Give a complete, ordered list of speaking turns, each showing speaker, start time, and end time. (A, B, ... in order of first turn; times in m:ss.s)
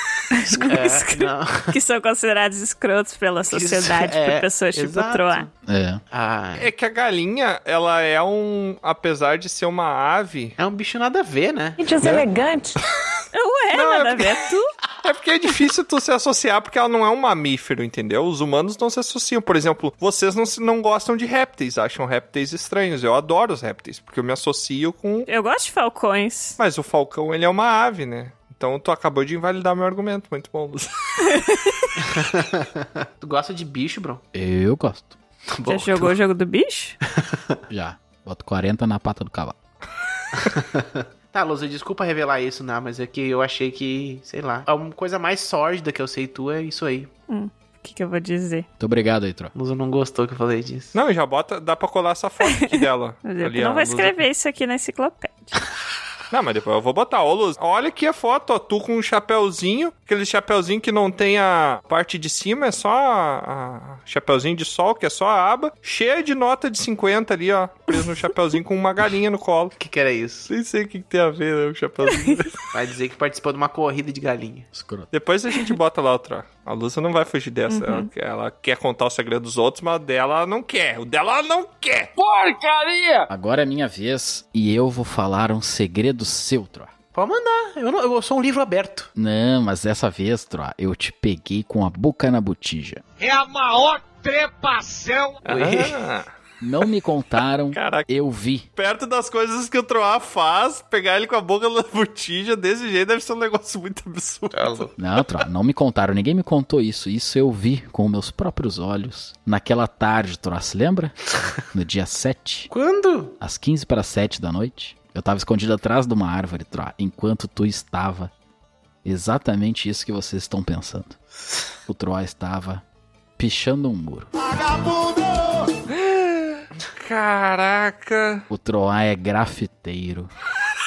0:00.3-0:05.5 A
0:00.6-0:01.8 B
0:03.5-0:05.5 B
0:05.7-0:06.0 C
0:06.1-0:06.7 B
0:06.6-0:10.6 D
0:10.6-0:11.8 B
0:11.8-0:12.2 A
0:13.3-0:14.7 A
0:13.7-0:14.4 D
0:15.0-0:25.3 D
0:25.3-0:26.6 A
0:26.6-0:31.3 D
0:31.3-0:31.9 A
0:32.1-0:34.2 B
0:34.3-0:35.2 C
0:35.5-0:36.2 B
0:35.7-0:37.0 A
0:37.2-0:37.6 B
0:37.7-0:39.6 C
0:40.4-0:47.1 B
0:47.3-0:48.7 A
0:48.8-0:49.5 C
0:49.5-0:51.0 B
0:50.9-0:54.2 D
0:52.5-0:55.5 A
0:56.3-1:09.8 D
1:09.8-1:10.5 B
1:10.5-1:12.5 D
1:12.7-1:14.7 B
1:14.7-1:15.1 C
1:15.1-1:22.1 D
1:17.7-1:18.1 A
1:22.2-1:23.2 E
1:23.3-1:26.9 C
1:27.1-1:29.1 B
1:29.2-1:33.0 C
1:33.2-1:35.4 E
1:35.4-1:36.3 D
1:35.5-1:36.0 B
1:36.6-1:38.7 C
1:37.7-1:38.1 D
1:38.8-1:44.9 D
1:44.5-1:44.9 B
1:45.0-1:51.2 C
1:51.7-1:52.7 C
1:52.7-1:53.3 B
1:53.4-1:58.3 C
1:59.0-2:01.2 C
2:01.9-2:02.8 C
2:03.4-2:04.3 C
2:05.9-2:08.5 D
2:08.5-2:10.3 C